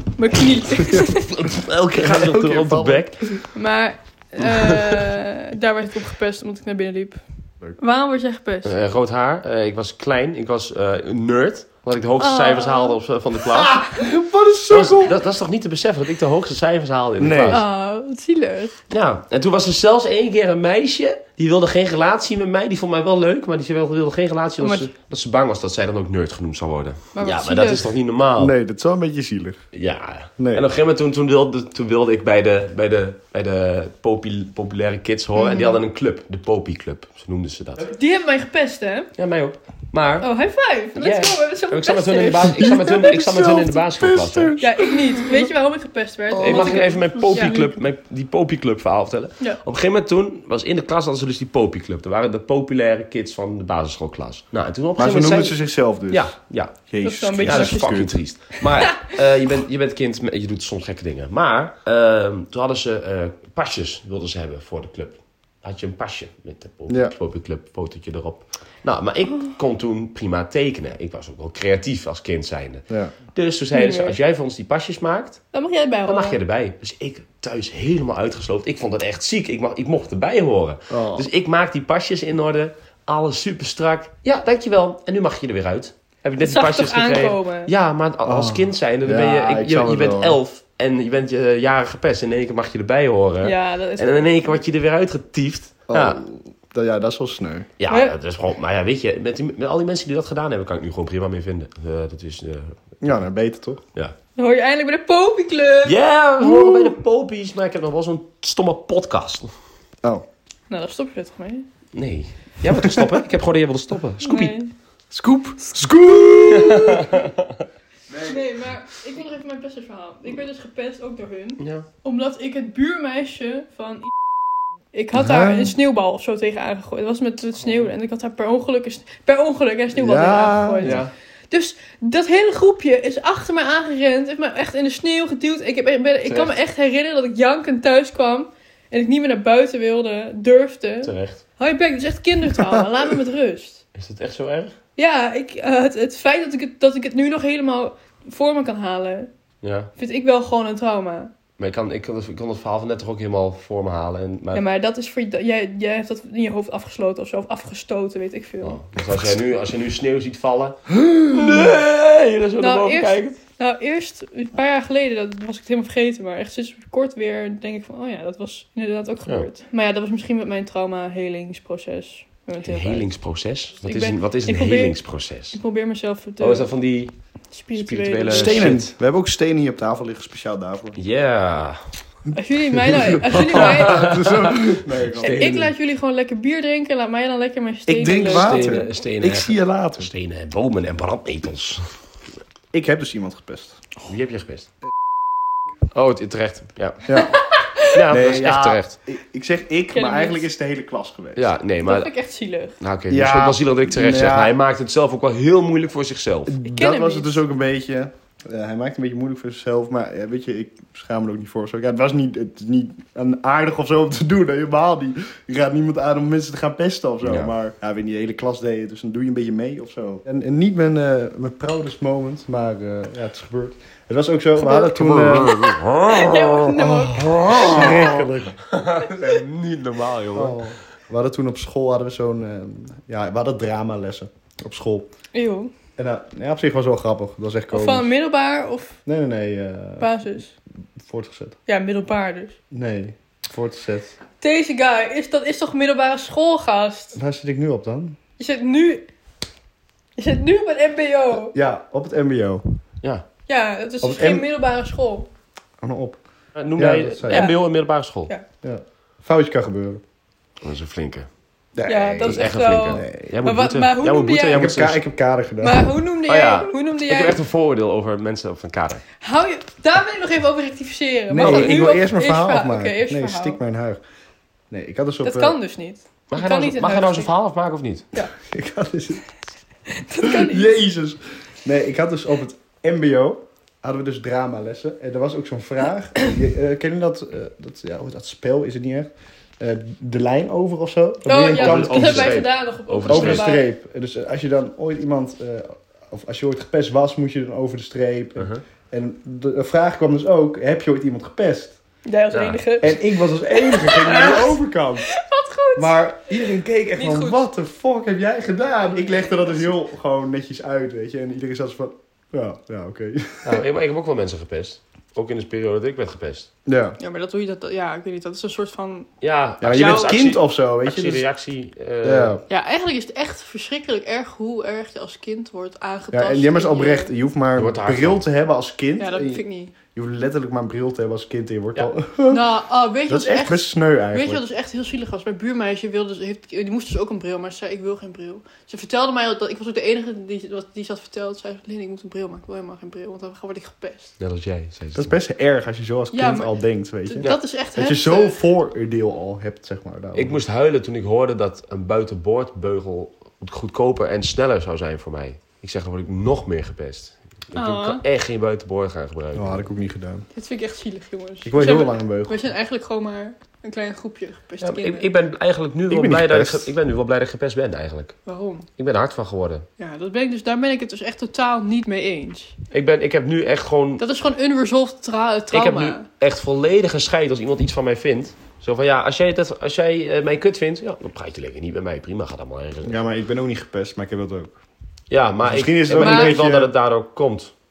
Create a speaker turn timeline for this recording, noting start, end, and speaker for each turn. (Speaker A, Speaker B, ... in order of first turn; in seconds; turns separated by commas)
Speaker A: 0.2-1.3, Speaker B: 0.9-3.4, Speaker C: 1.9-3.4, Speaker A: 3.5-8.7, Speaker B: 4.4-4.7, Speaker B: 8.6-13.9, Speaker A: 12.2-13.0, Speaker C: 13.5-15.2, Speaker B: 14.7-17.6, Speaker C: 17.2-17.6, Speaker A: 17.5-18.8, Speaker B: 18.9-28.5, Speaker A: 24.6-24.9, Speaker A: 27.1-27.9, Speaker C: 28.4-29.6, Speaker B: 29.7-37.9, Speaker C: 30.4-30.6, Speaker A: 35.4-35.8, Speaker A: 37.9-39.1, Speaker B: 39.2-40.3, Speaker A: 40.2-43.2, Speaker B: 40.9-44.6, Speaker C: 42.5-45.5, Speaker A: 44.6-47.8, Speaker C: 46.3-47.5, Speaker B: 46.3-55.6, Speaker C: 55.0-58.2, Speaker B: 56.1-56.8, Speaker A: 57.0-59.0, Speaker B: 57.4-75.4, Speaker C: 66.9-67.1, Speaker A: 73.7-74.2, Speaker A: 75.5-76.4, Speaker B: 76.1-96.2, Speaker C: 80.9-81.3, Speaker A: 86.4-87.7, Speaker C: 88.2-90.4, Speaker A: 93.4-94.6, Speaker C: 95.9-97.7, Speaker B: 97.8-102.8, Speaker A: 97.9-98.2, Speaker C: 103.0-103.8, Speaker A: 104.3-106.9, Speaker B: 105.8-109.5, Speaker A: 110.7-111.7, Speaker B: 111.9-114.5, Speaker C: 112.8-113.1, Speaker A: 114.2-114.7, Speaker C: 115.1-117.1, Speaker B: 116.5-117.6, Speaker C: 118.1-118.4, Speaker A: 118.2-124.1, Speaker B: 121.6-121.8, Speaker A: 124.9-143.8, Speaker C: 125.1-125.7, Speaker C: 129.9-131.0, Speaker B: 130.8-131.1, Speaker B: 136.2-136.5, Speaker B: 141.0-141.4, Speaker B: 143.9-144.8, Speaker A: 145.0-149.3, Speaker B: 149.6-149.9, Speaker A: 150.0-151.3, Speaker B: 151.6-154.6, Speaker A: 154.5-158.8, Speaker B: 158.6-163.4, Speaker A: 162.6-173.1, Speaker B: 172.6-175.6, Speaker A: 173.8-175.0, Speaker A: 175.5-176.7, Speaker B: 176.4-177.1, Speaker A: 177.5-178.7, Speaker B: 177.8-178.9, Speaker C: 178.3-181.0, Speaker B: 181.0-181.8, Speaker C: 182.3-185.4, Speaker A: 182.3-184.4, Speaker B: 183.3-185.7, Speaker A: 185.2-188.9, Speaker C: 187.9-190.1, Speaker B: 188.2-191.9, Speaker C: 192.7-193.8, Speaker B: 194.0-194.7, Speaker B: 195.9-197.3, Speaker C: 197.1-197.4, Speaker A: 197.3-197.7, Speaker B: 197.9-198.9, Speaker C: 198.1-201.5, Speaker A: 199.9-200.4, Speaker B: 201.3-202.1, Speaker A: 201.8-202.8, Speaker B: 202.8-206.6, Speaker C: 203.1-204.6, Speaker C: 206.5-225.9, Speaker A: 206.6-207.4, Speaker B: 217.2-217.5, Speaker A: 224.6-225.0, Speaker B: 224.9-230.6, Speaker A: 226.0-228.0, Speaker C: 226.6-228.6, Speaker C: 230.3-235.1, Speaker A: 235.3-235.7, Speaker C: 236.0-238.1, Speaker A: 237.7-239.0, Speaker C: 239.1-240.1, Speaker A: 240.0-240.5, Speaker C: 241.0-241.6, Speaker A: 241.7-242.6, Speaker C: 242.7-244.2, Speaker A: 244.4-247.2, Speaker C: 247.1-248.2, Speaker A: 248.4-249.0, Speaker A: 250.2-251.5, Speaker C: 251.3-252.8, Speaker A: 253.5-255.3, Speaker C: 254.0-254.5, Speaker C: 255.8-256.2, Speaker B: 256.6-258.3, Speaker C: 256.8-257.5, Speaker A: 257.3-257.6, Speaker C: 258.6-260.0, Speaker B: 260.6-261.3, Speaker C: 261.7-263.3, Speaker A: 261.9-264.7, Speaker B: 262.2-265.0, Speaker C: 264.5-265.9, Speaker A: 265.6-267.4, Speaker B: 266.2-269.0, Speaker A: 269.2-273.6, Speaker C: 271.3-274.0, Speaker B: 271.4-271.9, Speaker C: 274.7-275.6, Speaker A: 275.2-277.3, Speaker B: 276.3-278.0, Speaker C: 278.5-279.2, Speaker A: 279.9-280.7, Speaker C: 280.2-292.4, Speaker A: 291.2-293.6, Speaker B: 291.5-293.5, Speaker C: 293.1-301.8, Speaker B: 298.4-298.6, Speaker A: 302.0-304.6, Speaker B: 302.3-302.6, Speaker C: 302.8-305.1, Speaker A: 305.1-307.4, Speaker C: 305.7-313.6, Speaker A: 308.9-309.7, Speaker B: 313.4-316.5, Speaker C: 316.6-317.0, Speaker A: 317.0-319.1, Speaker B: 319.2-322.4, Speaker C: 319.6-321.2, Speaker A: 319.7-320.1, Speaker C: 322.0-322.4, Speaker A: 322.5-327.1, Speaker C: 326.1-332.5, Speaker B: 327.6-328.2, Speaker A: 329.0-329.7, Speaker A: 332.3-344.1, Speaker C: 333.1-334.4, Speaker B: 344.2-345.1, Speaker C: 344.9-350.4, Speaker A: 346.1-348.4, Speaker B: 350.1-359.7, Speaker A: 357.5-358.0, Speaker C: 359.3-360.2, Speaker A: 360.3-365.1, Speaker C: 361.4-362.5, Speaker B: 364.6-368.1, Speaker C: 365.9-366.7, Speaker A: 368.2-368.7, Speaker B: 368.8-369.6, Speaker A: 369.8-372.6, Speaker B: 372.7-374.0, Speaker A: 374.0-376.1, Speaker B: 375.5-383.0, Speaker C: 382.8-384.6, Speaker B: 385.1-387.5, Speaker C: 385.4-386.7, Speaker A: 385.9-386.4